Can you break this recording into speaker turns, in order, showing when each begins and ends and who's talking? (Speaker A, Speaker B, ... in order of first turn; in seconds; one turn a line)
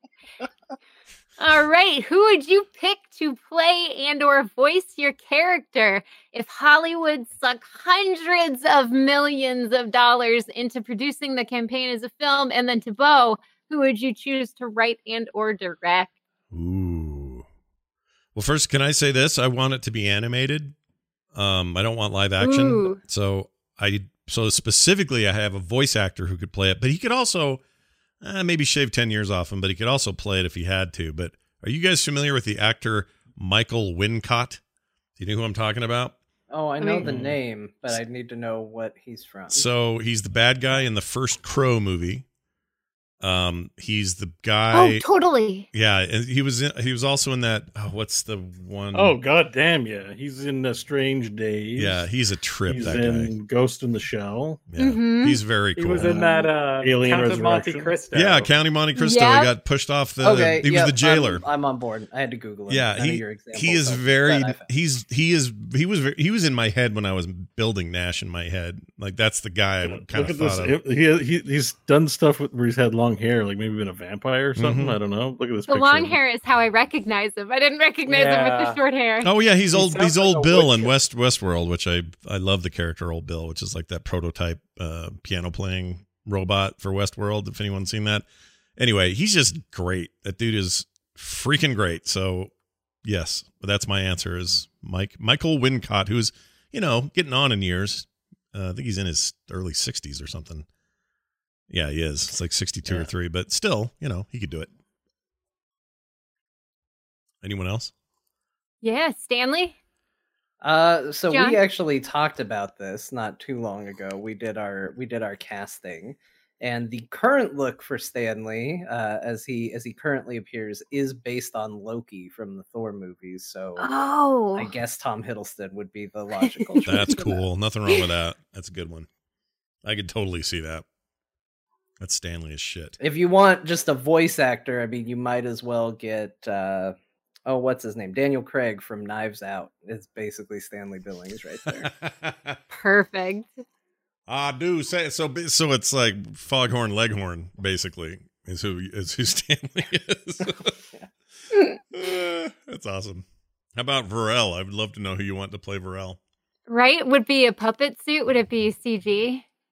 Speaker A: 1.4-16.1
Speaker B: 16.5-17.4
Speaker B: 18.3-20.7
Speaker B: 21.3-27.6
Speaker A: 22.4-23.0
Speaker B: 28.2-34.6
Speaker B: 35.2-36.1
Speaker C: 36.5-39.6
Speaker A: 36.8-37.1
Speaker B: 37.0-37.4
Speaker B: 39.5-42.2
Speaker B: 43.2-45.0
Speaker A: 44.7-45.7
Speaker B: 45.7-49.1
Speaker D: 48.9-52.0
Speaker B: 51.8-53.3
Speaker D: 52.7-54.6
Speaker B: 54.7-56.2
Speaker A: 54.8-55.4
Speaker E: 55.8-58.5
Speaker D: 55.9-58.0
Speaker B: 58.1-61.4
Speaker A: 59.0-59.5
Speaker C: 60.2-64.6
Speaker B: 62.7-70.8
Speaker D: 69.8-76.2
Speaker B: 74.5-75.0
Speaker A: 75.7-79.3
Speaker E: 78.0-78.8
Speaker B: 79.2-88.2
Speaker E: 79.7-80.9
Speaker B: 88.8-92.5
Speaker B: 93.0-100.7
Speaker B: 101.7-104.7
Speaker B: 107.4-107.9
Speaker A: 108.8-109.7
Speaker C: 110.6-123.9
Speaker A: 111.3-111.6
Speaker A: 123.8-124.7
Speaker C: 124.5-127.3
Speaker A: 126.4-127.2
Speaker B: 126.8-129.1
Speaker B: 129.8-130.8
Speaker B: 132.0-132.9
Speaker C: 133.0-136.9
Speaker C: 137.4-141.9
Speaker B: 141.7-142.6
Speaker A: 142.7-143.6
Speaker B: 144.3-150.7
Speaker B: 151.9-153.2
Speaker B: 153.8-156.2
Speaker A: 156.7-159.4